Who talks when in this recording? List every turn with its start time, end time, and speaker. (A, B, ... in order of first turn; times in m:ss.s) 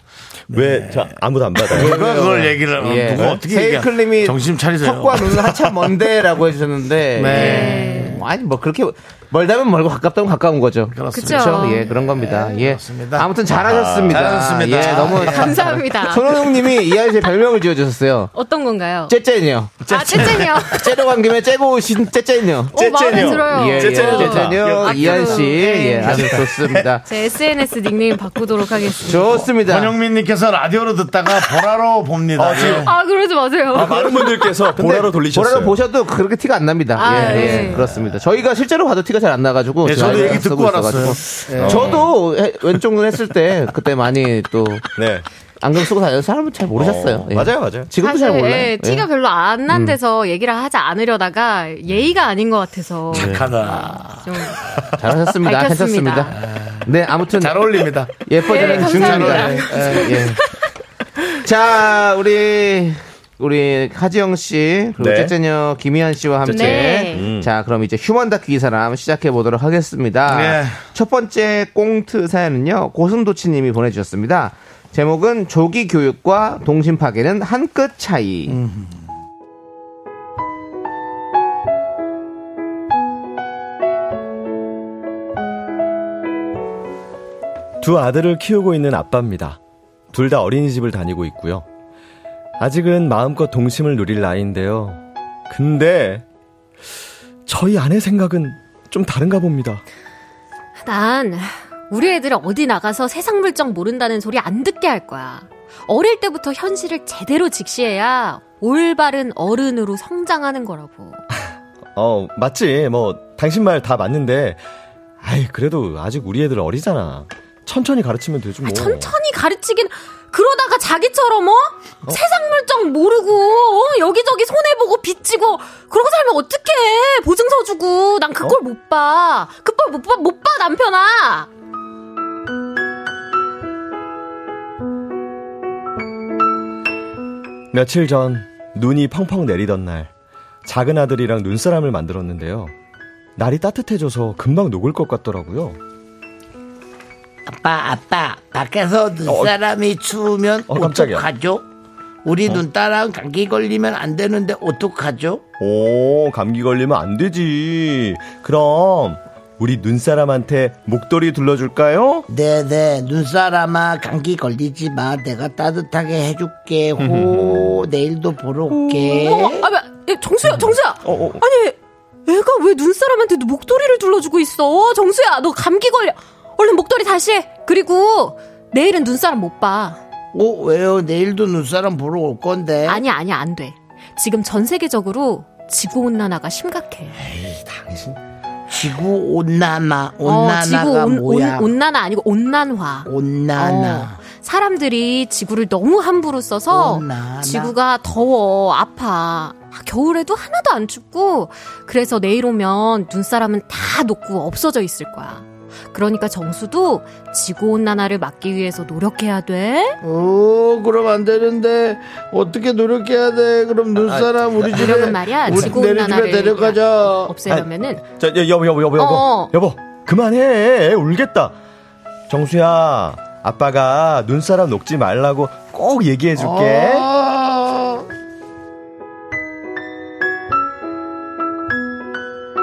0:00.5-0:02.0 A
0:00.5-0:05.9 B
0:01.7-0:18.3 C
0:07.2-0:08.2 B
0:07.2-0:08.2 D
0:10.9-0:13.3 B
0:11.1-0:11.9 D
0:13.6-0:14.3 A
0:14.1-0:15.6 B
0:15.0-0:16.9 D
0:18.3-0:19.1 D
0:19.1-0:27.1 C
0:19.9-0:21.0 D
0:19.9-0:20.5 A
0:22.7-0:26.5 D
0:22.7-0:24.8 A
0:24.2-0:25.5 B
0:26.0-0:26.5 B
0:27.0-0:29.5 D
0:29.0-0:29.9 C
0:29.6-0:32.9 B
0:32.4-0:32.9 A
0:32.6-0:34.7 D
0:33.7-0:35.8 A
0:34.7-0:44.9 C
0:37.0-0:37.9 D
0:37.2-0:37.7 A
0:39.8-0:42.0 B
0:41.5-0:42.1 A
0:45.0-0:45.2 A
0:45.6-0:49.1 C
0:46.7-0:47.9 A
0:48.0-0:54.7 D
0:49.7-0:50.0 C
0:53.1-0:54.4 B
0:53.1-0:53.5 C
0:55.0-1:00.4 C
0:55.4-0:56.4 D
0:56.4-1:00.3 B
0:58.4-1:00.4 D
1:01.4-1:18.6 C
1:05.0-1:05.3 A
1:06.4-1:07.5 A
1:06.5-1:07.3 D
1:10.3-1:10.8 B
1:18.5-1:19.0 B
1:27.8-1:29.6 A
1:30.1-1:31.6 A
1:32.6-1:36.2 A
1:37.4-1:39.8 A
1:40.8-1:51.2 D
1:51.9-1:54.6 A
1:55.2-1:59.1 A
1:58.6-2:11.5 D
2:17.7-2:20.1 A
2:20.6-2:22.7 A
2:23.4-2:25.8 A
2:27.5-2:31.6 B
2:29.2-2:29.6 A
2:30.7-2:31.3 A
2:32.2-2:35.4 B
2:35.6-2:42.3 A
2:42.3-2:44.8 B
2:45.9-2:47.8 B
2:47.0-2:47.8 A
2:48.6-2:48.8 B
2:48.7-2:49.1 A
2:49.1-3:00.0 D
2:50.5-2:51.4 A
3:00.3-3:03.0 B
3:02.8-3:07.2 D
3:07.4-3:08.1 B
3:08.7-3:11.7 B
3:10.2-3:30.0 D
3:13.1-3:14.1 B
3:16.8-3:17.6 B
3:30.0-3:37.3 B
3:34.6-3:38.0 D
3:34.8-3:35.7 A
3:37.5-3:41.6 A
3:39.0-3:39.6 D
3:42.3-3:47.1 A
3:46.4-3:48.0 B